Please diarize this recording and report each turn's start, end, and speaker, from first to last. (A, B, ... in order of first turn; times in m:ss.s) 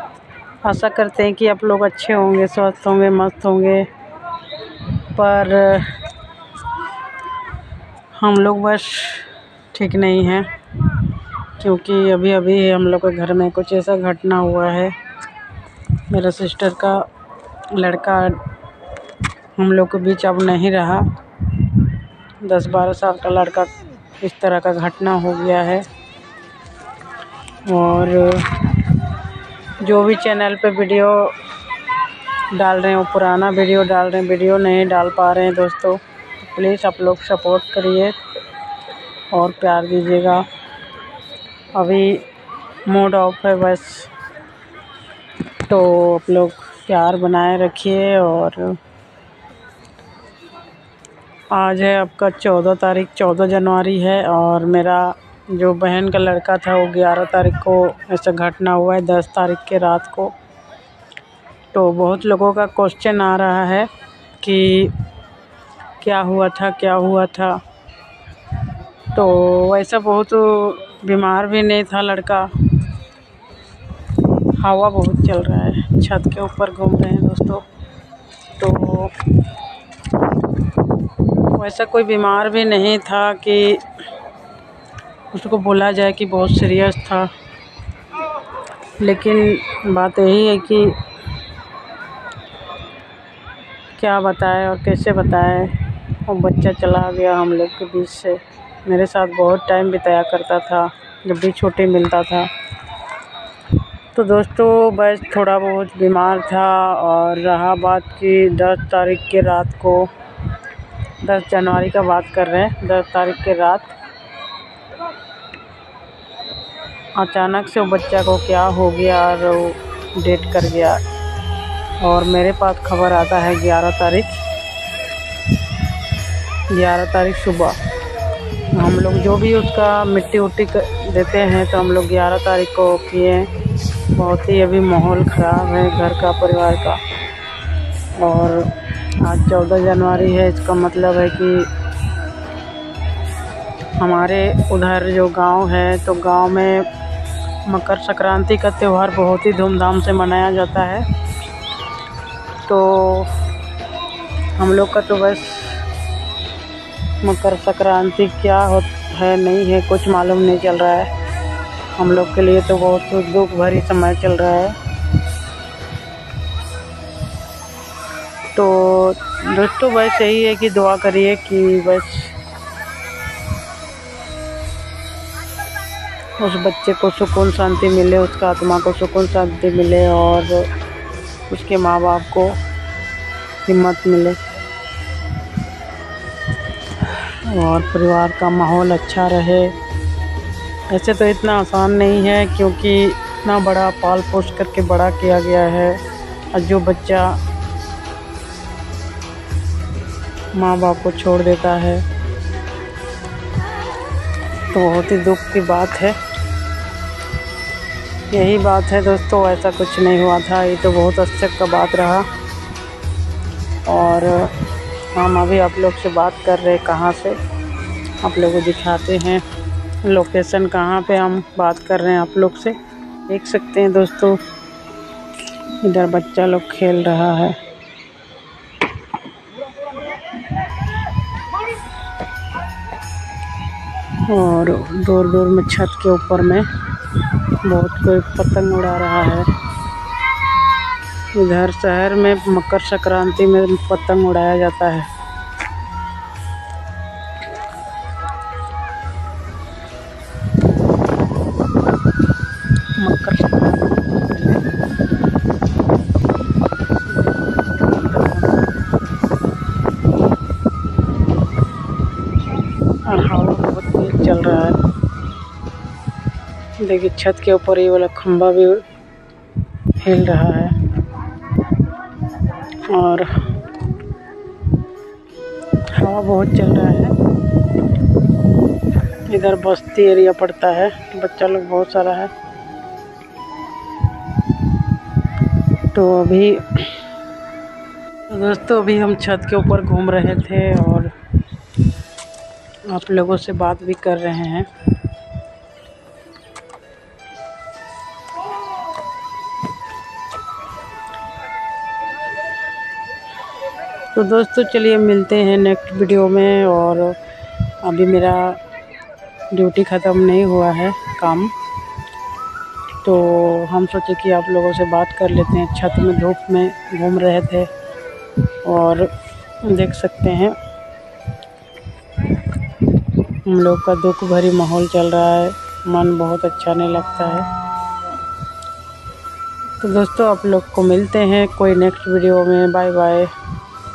0:00.6-0:03.9 A
0:05.1-0:06.0 A
0:08.2-0:10.5 A
0:11.6-0:14.9 A
0:16.1-0:17.1 A
0:17.7-0:18.4 A
0:19.6-0:23.7 A
0:24.2-0:25.8 A
0:27.6-0:28.9 A
0:29.8-0:31.4 A
0:32.5-0:38.2 A
0:39.3-0:40.5 A
0:41.7-0:42.2 A
0:42.8-0:44.1 A
0:45.6-0:48.8 A
0:51.5-1:00.3 A
1:01.7-1:03.9 A
1:04.4-1:04.9 A
1:06.0-1:07.6 A
1:09.1-1:12.7 A
1:14.6-1:17.6 A
1:18.6-1:19.2 A
1:21.4-1:23.8 A
1:25.3-1:27.3 A
1:29.0-1:31.0 A
1:34.0-1:42.5 A
1:44.1-1:50.1 A
1:51.2-1:53.9 A
1:57.1-2:01.0 A
2:02.0-2:04.4 A
2:06.7-2:07.8 A
2:08.7-2:17.0 A
2:18.1-2:21.7 A
2:24.0-2:26.9 A
2:27.6-2:31.1 A
2:32.7-2:33.3 A
2:34.5-2:35.8 A
2:37.2-2:41.1 A
2:42.0-2:44.8 A
2:48.5-2:52.4 A
2:56.4-3:00.7 A
3:01.5-3:02.6 A
3:03.6-3:04.4 A
3:07.0-3:09.7 A
3:10.9-3:16.0 A
3:16.5-3:17.4 A
3:20.5-3:22.0 A
3:24.7-3:26.2 A
3:28.3-3:32.3 A
3:33.8-3:37.4 A
3:38.2-3:39.4 A
3:40.0-3:42.8 A
3:43.3-3:44.4 A
3:45.8-3:47.6 A
3:54.2-3:59.5 A
4:01.3-4:05.1 A
4:13.0-4:14.6 A
4:17.1-4:18.7 A
4:23.0-4:24.8 A
4:26.8-4:28.8 A
4:30.0-4:30.8 A
4:32.9-4:33.4 A
4:35.9-4:37.2 A
4:39.3-4:42.3 A
4:45.9-4:47.0 A
4:48.3-4:51.1 A
4:52.9-4:54.7 A
5:04.1-5:07.2 A
5:07.8-5:08.6 A
5:09.5-5:11.5 A
5:13.0-5:17.7 A
5:18.6-5:19.1 A
5:19.6-5:20.6 A
5:23.3-5:27.5 A
5:29.8-5:33.3 A